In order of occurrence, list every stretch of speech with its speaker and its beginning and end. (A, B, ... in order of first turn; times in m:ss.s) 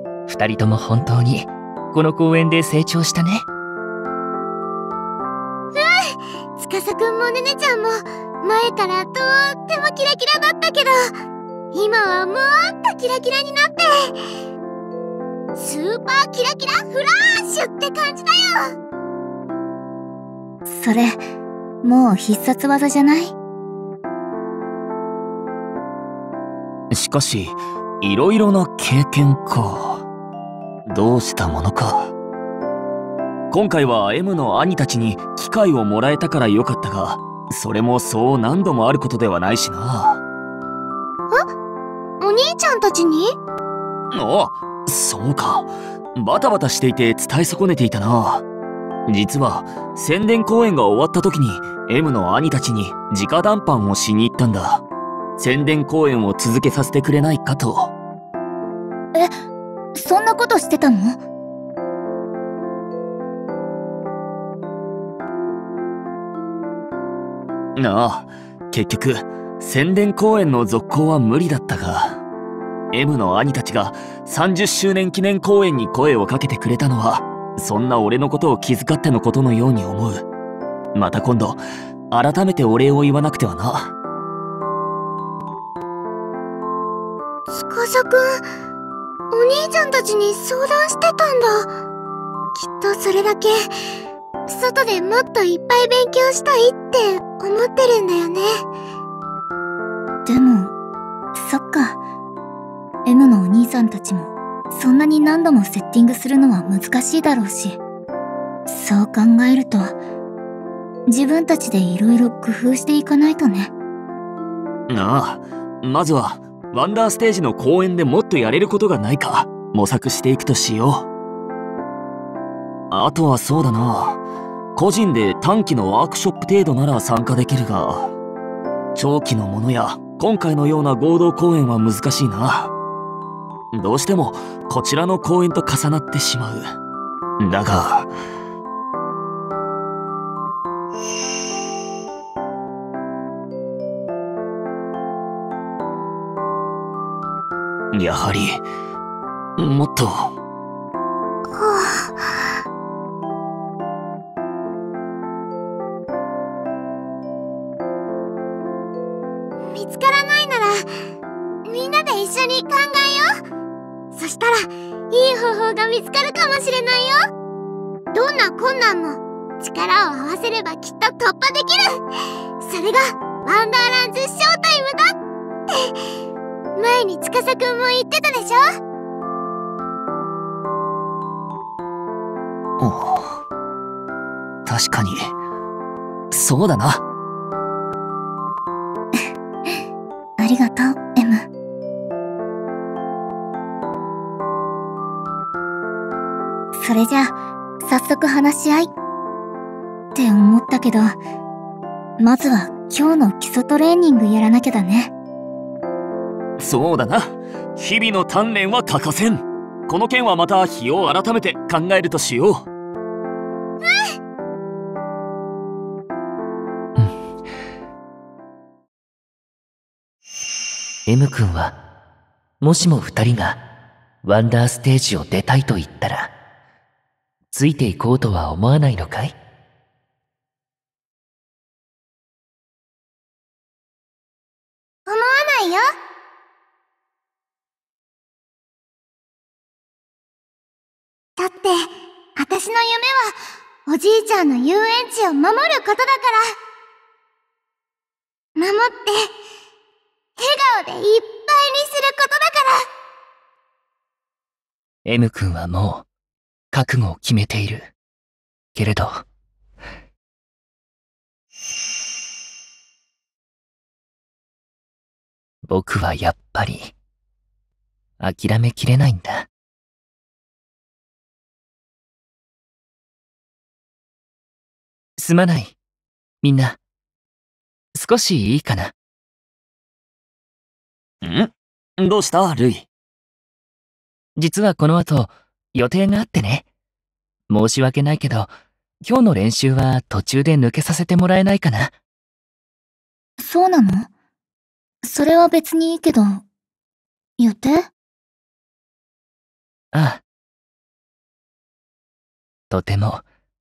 0:00.3-0:03.4 A
0:05.7-0:11.2 B
0:11.7-0:14.2 B
0:15.5-0:18.6 B
0:20.6-0:21.2 C
0:21.8-0:23.3 C
0:26.9-0:30.0 D
0:30.9-0:32.1 D
0:33.5-0:40.2 D
0:42.2-0:43.4 B
0:44.1-0:48.4 D
0:49.1-0:54.8 D
0:55.4-0:57.9 D
0:59.9-1:01.2 C
1:07.8-1:12.2 D
1:12.9-1:20.2 D
1:20.9-1:23.9 D
1:27.5-1:28.4 B
1:29.3-1:31.7 B
1:32.6-1:33.6 B
1:34.5-1:38.5 B
1:40.2-1:40.7 C
1:41.3-1:42.0 C
1:43.0-1:47.8 C
1:48.7-1:49.9 C
1:51.1-1:53.7 C
1:54.9-2:01.1 D
2:02.9-2:04.2 D
2:04.8-2:08.1 D
2:08.9-2:12.7 D
2:13.7-2:16.6 D
2:17.4-2:18.1 D
2:27.9-2:28.6 D
2:29.6-2:30.3 D
2:31.5-2:32.5 B
2:39.6-2:40.9 B
2:41.6-2:43.3 B
2:44.1-2:47.2 B
2:48.1-2:52.0 B
2:52.6-2:55.1 B
2:55.7-2:56.0 B
2:56.8-2:58.6 B
3:02.8-3:03.4 D
3:04.6-3:05.3 D
3:06.3-3:07.0 D
3:10.4-3:11.5 C
3:16.7-3:18.9 C
3:20.1-3:21.2 C
3:22.2-3:25.1 C
3:26.6-3:32.6 D
3:41.1-3:41.7 A
3:42.6-3:43.6 A
3:44.2-3:46.3 A
3:47.5-3:49.3 A
3:55.1-3:55.8 B
4:01.4-4:03.4 B
4:03.9-4:06.6 B
4:08.6-4:09.3 B
4:10.4-4:12.8 B
4:15.0-4:16.0 A
4:16.7-4:17.9 A
4:18.7-4:19.2 A
4:25.6-4:26.9 A
4:28.2-4:29.5 A
4:35.2-4:35.7 A
4:36.4-4:36.8 A
4:38.0-4:38.9 A
4:41.2-4:42.9 D
4:44.4-4:46.7 A
4:47.5-4:51.9 A
4:53.4-4:54.1 C
4:55.0-4:56.4 C
4:57.4-4:57.9 C
4:59.9-5:00.2 A
5:02.7-5:03.2 A